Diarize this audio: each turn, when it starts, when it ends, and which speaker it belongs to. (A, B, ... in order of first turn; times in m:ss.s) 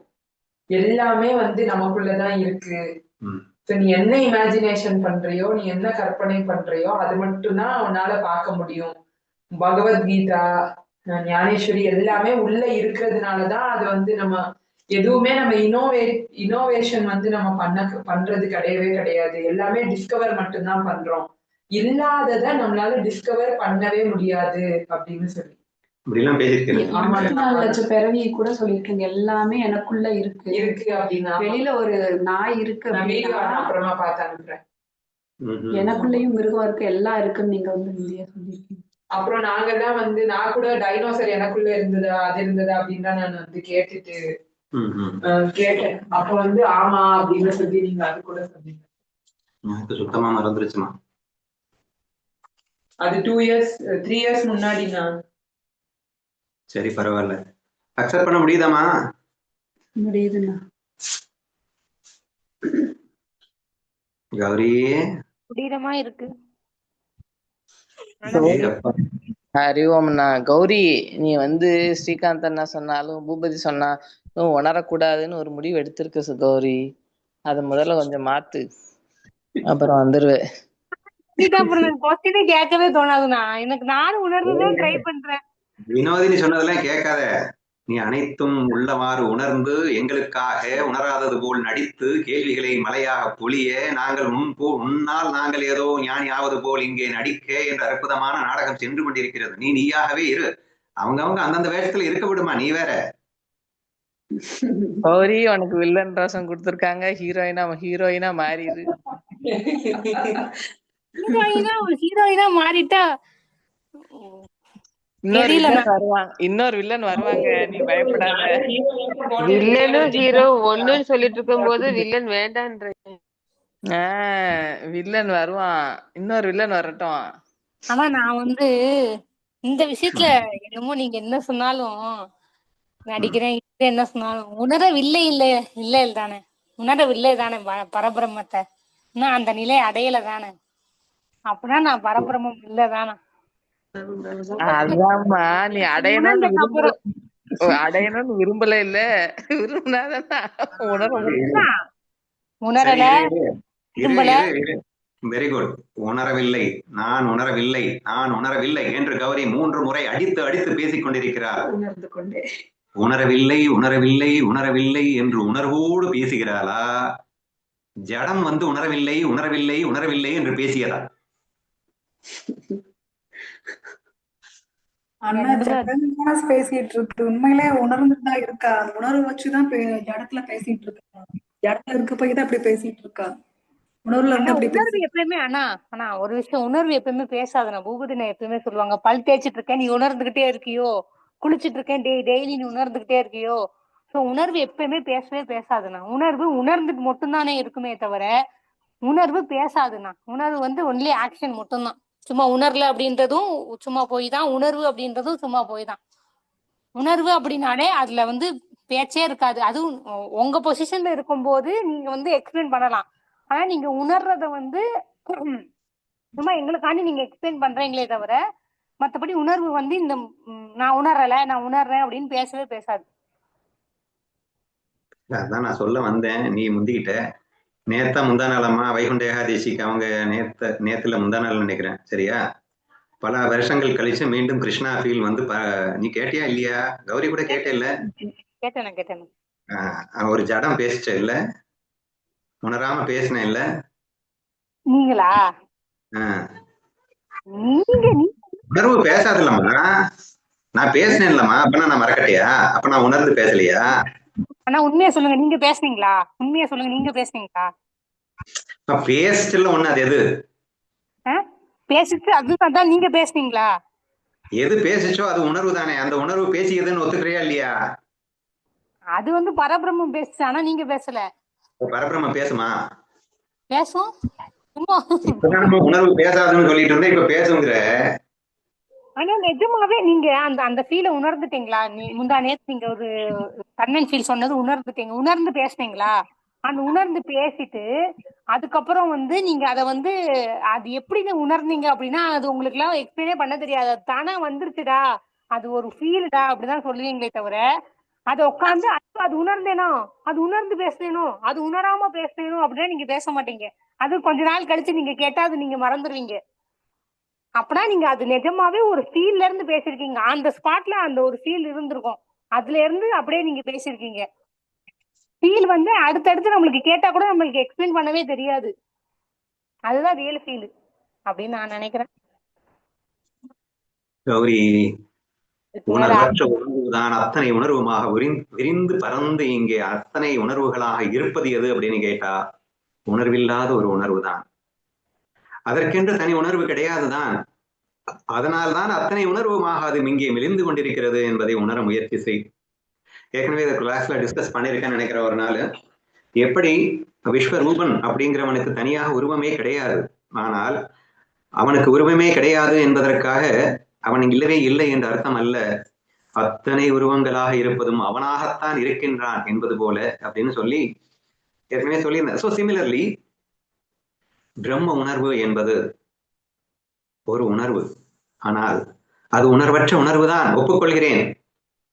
0:00.8-0:02.8 A
0:03.7-0:09.0 A
0:09.6-0:10.4 A
0:11.1-0:14.4 A
0:15.0-0:25.6 A
0:26.1-0:27.3 B
0:26.8-0:27.8 A
0:26.9-0:30.7 C
0:30.5-0:31.6 A
0:31.4-0:33.7 C
0:32.9-0:34.6 A
0:35.5-0:36.0 B
0:35.7-0:38.7 C
0:39.2-0:44.2 A
0:44.8-0:45.2 B
0:45.5-0:48.8 A
0:49.7-0:50.9 B
0:53.0-0:55.1 A
0:56.7-0:57.4 B
0:58.0-0:58.8 B
1:00.0-1:00.6 C
1:04.4-1:05.0 B
1:05.5-1:06.3 D
1:08.2-1:08.7 D
1:08.3-1:08.7 E
1:08.4-1:08.9 B
1:09.6-1:16.8 E
1:17.5-1:18.6 E
1:19.7-1:20.4 E
1:21.4-1:25.4 D
1:24.5-1:24.9 B
1:25.9-1:27.3 B
1:27.9-1:40.5 B
1:41.0-1:43.0 B
1:45.0-1:48.9 E
1:51.2-1:53.0 D
1:55.3-1:58.6 E
1:55.3-1:55.8 D
1:57.2-2:02.0 A
1:59.4-2:03.2 F
2:04.0-2:07.2 E
2:07.9-2:08.7 D
2:09.7-2:12.0 D
2:13.1-2:18.6 D
2:19.2-2:20.5 D
2:21.5-2:23.2 D
2:24.6-2:27.0 E
2:24.7-2:25.0 D
2:25.8-2:26.9 D
2:27.7-2:29.0 E
2:29.6-2:31.5 E
2:31.2-2:31.6 B
2:32.7-2:33.2 D
2:32.8-2:33.4 B
2:34.0-2:34.4 D
2:34.0-2:34.8 B
2:35.3-2:41.6 B
2:43.0-2:46.8 B
2:48.1-2:51.0 B
2:55.3-3:01.1 G
2:55.4-2:55.9 D
3:01.6-3:03.3 G
3:04.1-3:05.0 G
3:04.3-3:10.9 D
3:11.4-3:13.6 D
3:14.1-3:18.3 D
3:19.1-3:26.0 D
3:27.0-3:29.9 D
3:30.4-3:34.8 D
3:35.3-3:35.6 D
3:36.4-3:38.4 D
3:39.0-3:43.0 D
3:45.3-3:47.2 B
3:47.9-3:52.4 B
3:53.2-3:57.9 B
3:57.5-3:57.8 D
3:58.6-3:59.3 D
3:59.7-4:01.4 B
4:02.6-4:03.6 B
4:04.9-4:05.4 D
4:06.2-4:06.4 B
4:07.5-4:08.4 D
4:08.7-4:09.9 B
4:10.8-4:13.9 B
4:14.7-4:17.7 D
4:18.9-4:20.2 B
4:21.3-4:23.7 D
4:24.6-4:27.7 B
4:29.2-4:31.2 D
4:31.8-4:32.7 B
4:33.7-4:34.1 D
4:34.8-4:35.6 D
4:35.4-4:37.8 B
4:39.2-4:43.1 D
4:43.8-4:46.1 D
4:46.7-4:47.8 D
4:48.5-4:50.1 D
4:50.8-4:55.0 D
4:55.6-4:57.6 D
4:58.3-5:06.4 D
5:07.6-5:14.2 D
5:15.4-5:18.7 D
5:19.9-5:20.7 D
5:21.3-5:22.1 D
5:24.3-5:24.9 B
5:25.8-5:26.3 D
5:25.9-5:32.4 B
5:33.1-5:34.4 B
5:35.7-5:37.4 B
5:38.3-5:42.4 B
5:43.4-5:45.6 B
5:46.4-5:50.8 B
5:51.6-5:53.5 B
5:54.1-5:55.6 B
5:56.4-6:00.8 B
6:01.7-6:03.1 B
6:04.6-6:05.8 B
6:07.3-6:07.9 B
6:08.5-6:08.8 B
6:09.4-6:11.2 B